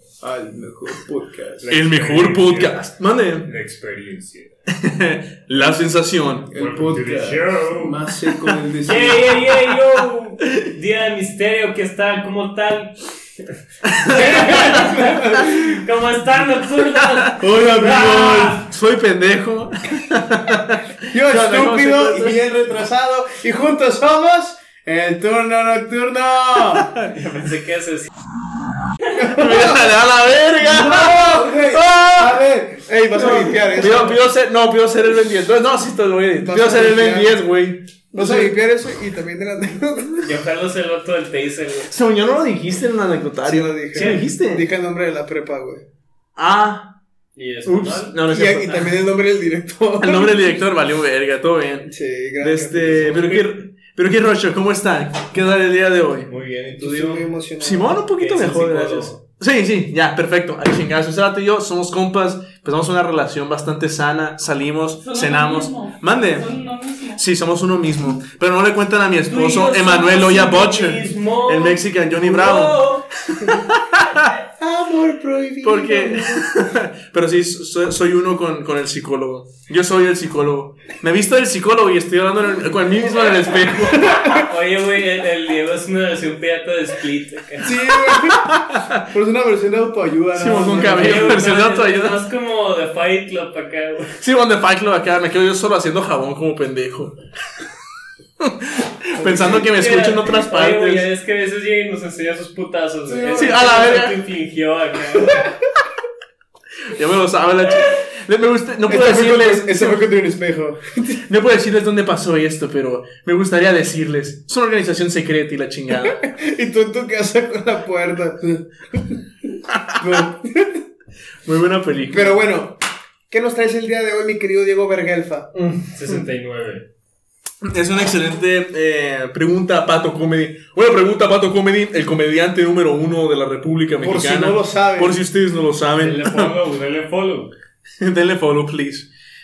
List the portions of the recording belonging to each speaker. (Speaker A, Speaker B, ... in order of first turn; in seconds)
Speaker A: 0.2-2.8, 3.4-4.5, 6.5-8.0
Speaker B: 0.3-1.7, 6.5-9.3, 14.1-15.7, 17.4-18.6, 21.1-26.9, 29.1-29.9, 30.6-34.2, 36.4-37.4, 38.1-40.3, 43.4-45.8, 48.2-50.6, 51.9-53.2, 56.8-58.0, 74.6-76.5, 84.1-84.4, 87.6-91.3, 99.2-99.7, 103.0-104.0, 108.9-111.2, 116.0-119.2, 120.0-120.8, 122.1-122.8, 123.3-126.2, 134.0-135.2
Speaker C: 1.6-2.7, 6.8-7.9, 8.8-13.4, 14.0-18.6, 27.1-28.1, 40.2-41.9, 43.9-44.2, 47.3-48.2, 53.0-53.4, 56.3-57.2, 58.1-59.2, 69.3-73.1, 84.3-87.8, 90.8-94.2, 99.4-105.5, 125.9-126.8, 136.0-137.5
Speaker D: 1.7-3.5, 4.7-6.6, 13.8-14.9, 17.0-22.4, 29.1-32.4, 33.1-38.5, 41.9-44.6, 46.4-47.0, 47.6-49.0, 50.0-56.3, 57.6-66.6, 67.1-74.3, 75.6-84.3, 88.2-89.0, 90.3-92.2, 94.2-97.2, 98.4-101.1, 103.3-104.2, 106.8-110.1, 111.3-116.2, 121.4-122.4, 127.6-136.5, 138.0-139.1
Speaker E: 65.0-67.2